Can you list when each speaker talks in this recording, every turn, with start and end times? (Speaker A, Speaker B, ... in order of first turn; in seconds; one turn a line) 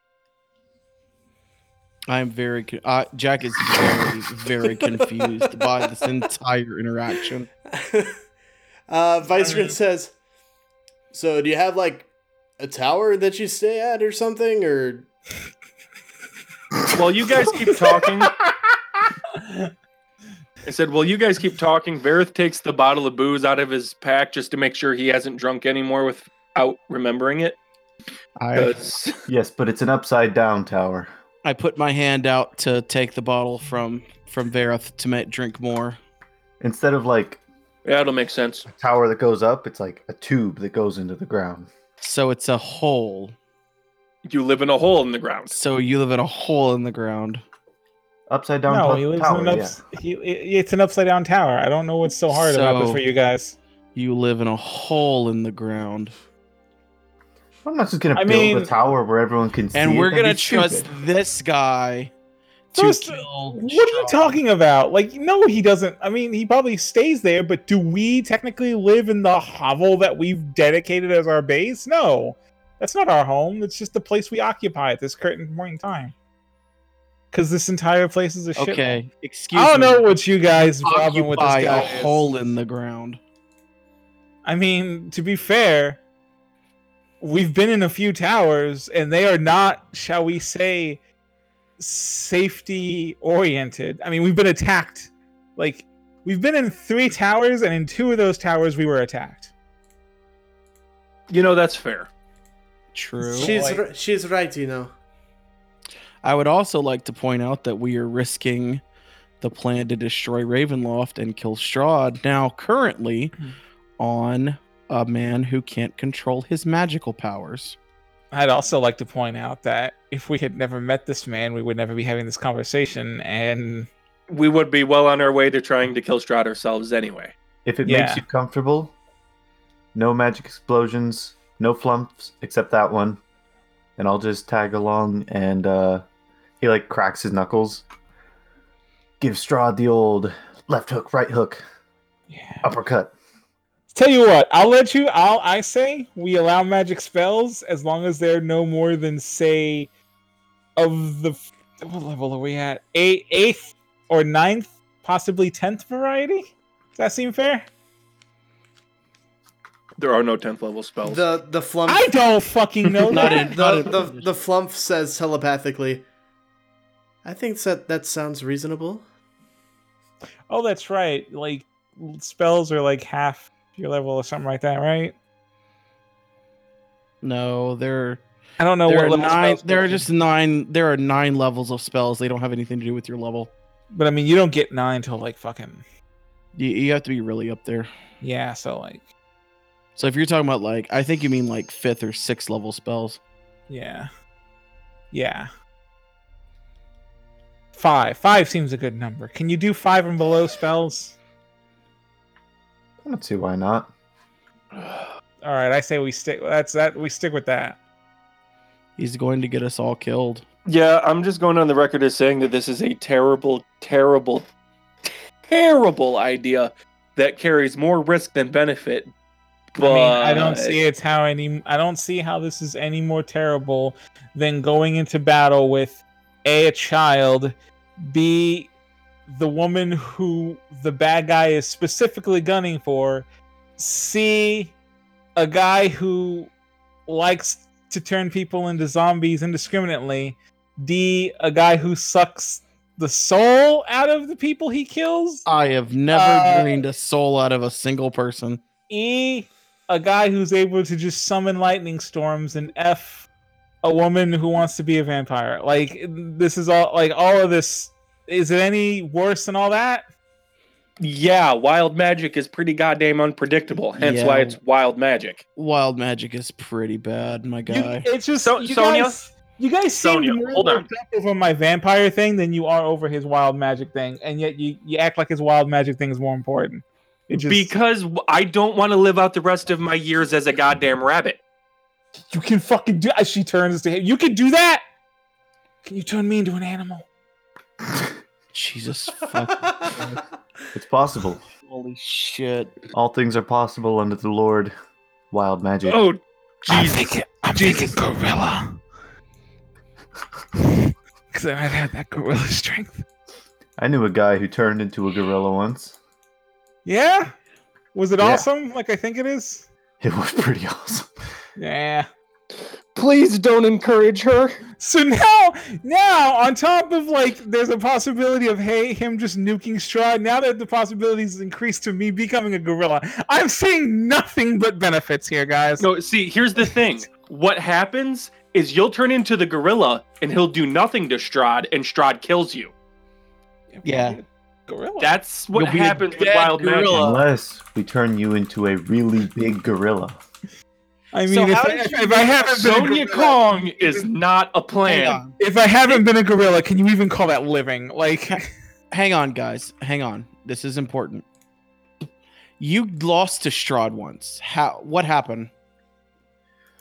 Speaker A: 2.1-7.5
Speaker B: 5.0-5.2
Speaker B: 7.7-8.2
Speaker B: 8.9-10.1
Speaker C: 9.4-9.8
Speaker B: 11.1-15.1
Speaker D: 16.9-18.4
Speaker C: 19.4-19.7
Speaker D: 20.6-27.6
Speaker A: 28.4-28.7
Speaker D: 28.5-29.2
Speaker E: 29.3-31.1
Speaker A: 31.4-36.0
Speaker E: 36.6-37.4
Speaker D: 37.9-38.7
Speaker E: 38.7-41.7
Speaker A: 42.0-43.4
Speaker D: 44.2-45.5
Speaker A: 45.5-47.4
Speaker E: 48.3-49.8
Speaker C: 48.7-53.6
Speaker A: 52.3-53.0
Speaker A: 54.0-56.1
Speaker E: 57.6-60.9
Speaker C: 58.1-58.7
Speaker A: 59.7-62.1
Speaker A: 62.7-64.4
Speaker C: 62.8-76.1
Speaker C: 77.3-79.0
Speaker A: 78.6-80.0
Speaker C: 79.5-82.2
Speaker A: 80.7-83.2
Speaker C: 84.5-86.0
Speaker C: 87.2-91.0
Speaker C: 91.8-99.5
Speaker D: 101.3-102.1
Speaker A: 102.9-103.6
Speaker C: 103.2-103.8
Speaker B: 103.3-104.9
Speaker A: 106.2-108.8
Speaker A: 109.4-113.3
Speaker A: 114.0-117.8
Speaker C: 118.3-123.9
Speaker D: 124.3-127.3
Speaker E: 127.7-128.9
Speaker C: 127.8-128.2
Speaker E: 129.9-133.2
Speaker E: 134.0-136.0
Speaker E: 136.6-137.8
Speaker E: 139.2-141.6
Speaker C: 142.3-142.7
Speaker E: 142.6-143.1
Speaker C: 143.9-149.9
Speaker C: 150.8-157.7
Speaker D: 160.0-161.2
Speaker B: 161.0-162.1
Speaker C: 161.9-163.6
Speaker A: 163.1-164.3
Speaker B: 163.2-166.0
Speaker B: 167.2-169.0
Speaker C: 170.5-175.2
Speaker A: 177.2-178.2
Speaker C: 178.6-180.1
Speaker A: 178.9-183.5
Speaker C: 183.9-185.8
Speaker A: 186.6-187.9
Speaker C: 188.2-189.1
Speaker A: 190.0-193.2
Speaker C: 193.7-194.1
Speaker C: 195.1-195.5
Speaker C: 197.7-201.2
Speaker E: 203.0-203.9
Speaker D: 204.8-205.1
Speaker C: 205.4-207.8
Speaker A: 209.0-210.4
Speaker D: 210.7-214.5
Speaker D: 215.5-219.1
Speaker D: 219.8-220.8
Speaker C: 219.8-228.7
Speaker C: 229.3-233.3
Speaker C: 233.8-234.8
Speaker C: 235.4-236.5
Speaker C: 237.1-245.5
Speaker A: 245.5-248.6
Speaker C: 246.1-246.8
Speaker C: 248.9-253.3
Speaker C: 253.8-260.0
Speaker D: 261.0-265.4
Speaker A: 264.0-264.6
Speaker A: 265.6-268.1
Speaker C: 267.7-277.7
Speaker D: 268.4-269.2
Speaker D: 270.0-270.9
Speaker D: 277.3-281.4
Speaker C: 282.3-284.8
Speaker C: 285.9-287.1
Speaker A: 288.5-290.2
Speaker E: 290.7-291.4
Speaker A: 291.6-292.8
Speaker E: 292.9-294.7
Speaker E: 295.3-296.0
Speaker D: 295.9-297.9
Speaker C: 296.7-298.8
Speaker C: 300.6-303.1
Speaker E: 303.8-306.0
Speaker C: 306.9-307.3
Speaker C: 307.9-309.7
Speaker E: 308.2-308.5
Speaker E: 310.0-311.1
Speaker C: 311.6-312.1
Speaker D: 312.9-314.6
Speaker C: 314.8-325.9
Speaker D: 325.8-332.7
Speaker C: 333.7-335.2
Speaker A: 333.8-334.2
Speaker D: 335.0-337.0
Speaker A: 335.6-337.2
Speaker E: 336.9-340.2
Speaker C: 341.1-343.2
Speaker A: 341.3-343.4
Speaker D: 342.6-345.2
Speaker A: 344.9-345.4
Speaker C: 345.4-348.5
Speaker A: 348.9-351.2
Speaker A: 352.6-355.5